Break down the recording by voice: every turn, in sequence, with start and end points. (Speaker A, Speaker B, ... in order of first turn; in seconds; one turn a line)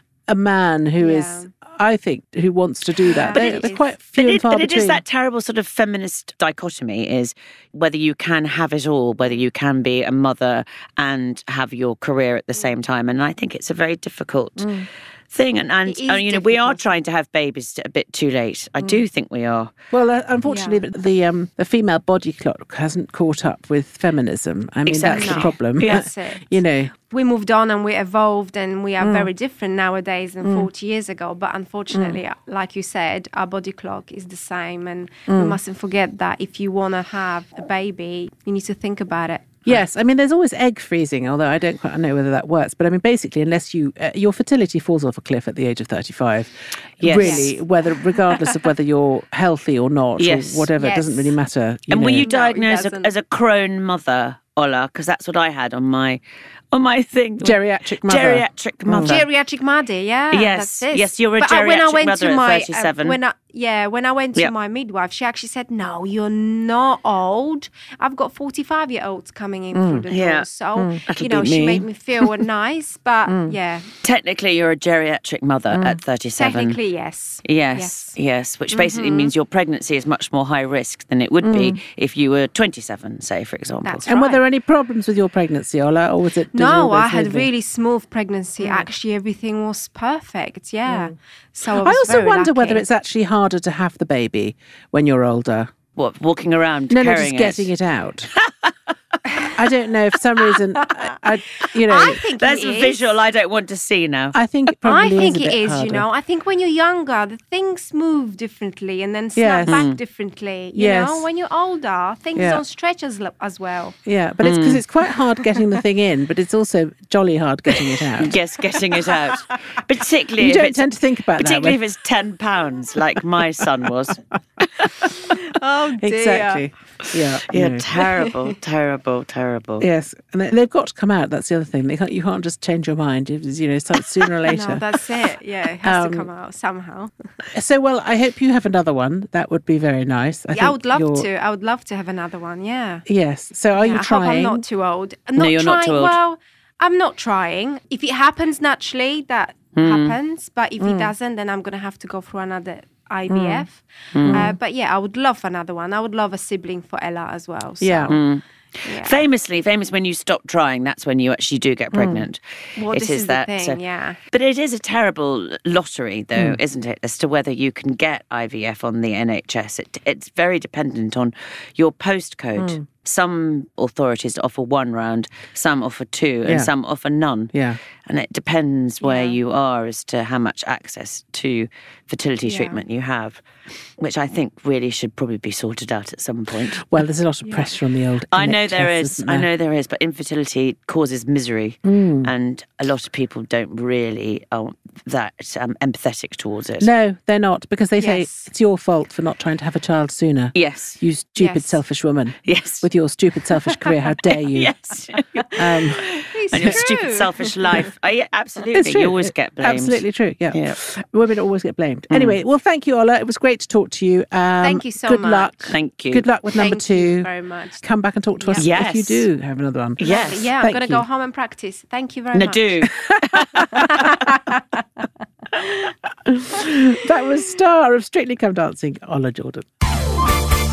Speaker A: 0.3-5.0
Speaker B: 1.0-1.5
Speaker B: 3.0-3.9
Speaker C: 3.3-19.7
Speaker A: 14.6-14.9
Speaker B: 15.8-16.8
Speaker A: 19.9-26.9
Speaker B: 20.4-20.8
Speaker C: 24.9-26.0
Speaker B: 25.0-39.8
Speaker A: 29.0-29.3
Speaker A: 30.4-30.7
Speaker A: 31.9-32.2
Speaker A: 35.3-35.6
Speaker A: 39.6-52.3
Speaker C: 47.0-47.5
Speaker B: 47.2-47.5
Speaker B: 48.1-48.5
Speaker C: 50.2-50.7
Speaker B: 50.8-51.4
Speaker C: 51.9-59.2
Speaker B: 52.2-53.1
Speaker A: 57.4-59.2
Speaker B: 59.0-73.9
Speaker C: 60.3-63.2
Speaker A: 69.7-70.0
Speaker C: 70.1-70.5
Speaker A: 70.8-71.0
Speaker C: 71.1-71.8
Speaker A: 73.3-73.5
Speaker C: 74.0-76.8
Speaker A: 75.7-76.0
Speaker B: 76.3-78.1
Speaker C: 77.4-84.0
Speaker B: 78.7-79.3
Speaker A: 81.4-81.8
Speaker B: 83.8-84.4
Speaker A: 84.1-87.5
Speaker B: 86.5-92.8
Speaker A: 90.9-91.1
Speaker A: 91.7-95.7
Speaker C: 96.0-97.7
Speaker A: 96.9-98.3
Speaker C: 98.4-99.2
Speaker A: 99.5-102.2
Speaker B: 101.9-103.1
Speaker C: 102.3-104.3
Speaker A: 104.3-106.1
Speaker B: 104.8-114.0
Speaker A: 109.3-109.8
Speaker C: 109.7-110.0
Speaker A: 110.7-111.3
Speaker A: 112.3-112.6
Speaker A: 114.0-118.3
Speaker C: 114.4-114.8
Speaker C: 118.2-124.2
Speaker A: 120.4-121.8
Speaker B: 125.1-126.7
Speaker A: 126.0-127.8
Speaker C: 127.0-129.8
Speaker B: 127.9-128.5
Speaker A: 129.8-134.8
Speaker B: 134.4-137.1
Speaker A: 135.8-136.3
Speaker A: 137.5-141.3
Speaker B: 140.5-143.0
Speaker A: 143.1-144.6
Speaker B: 143.7-158.2
Speaker C: 145.4-146.2
Speaker C: 149.8-150.2
Speaker A: 150.8-151.1
Speaker A: 153.3-153.7
Speaker C: 154.1-154.5
Speaker A: 154.2-154.6
Speaker A: 157.8-158.2
Speaker C: 158.1-177.5
Speaker B: 158.8-159.2
Speaker A: 161.9-162.3
Speaker B: 162.8-164.2
Speaker A: 172.6-172.8
Speaker A: 176.4-176.7
Speaker A: 177.5-177.8
Speaker C: 178.0-183.4
Speaker B: 179.0-179.4
Speaker B: 182.4-182.8
Speaker C: 184.0-186.9
Speaker A: 186.8-189.5
Speaker B: 187.4-187.7
Speaker C: 188.3-196.9
Speaker A: 191.8-192.3
Speaker A: 196.8-204.7
Speaker B: 198.0-198.5
Speaker C: 200.5-201.0
Speaker B: 201.4-201.8
Speaker C: 202.4-202.8
Speaker C: 204.5-210.8
Speaker A: 205.5-206.8
Speaker B: 205.9-207.9
Speaker A: 208.7-217.3
Speaker C: 212.1-212.4
Speaker B: 214.6-215.7
Speaker C: 215.7-216.2
Speaker B: 216.5-217.8
Speaker A: 217.8-221.0
Speaker B: 218.4-218.7
Speaker C: 218.6-219.3
Speaker C: 220.0-220.5
Speaker B: 220.0-222.8
Speaker C: 222.3-224.0
Speaker A: 222.8-224.3
Speaker B: 223.7-225.0
Speaker A: 226.2-229.7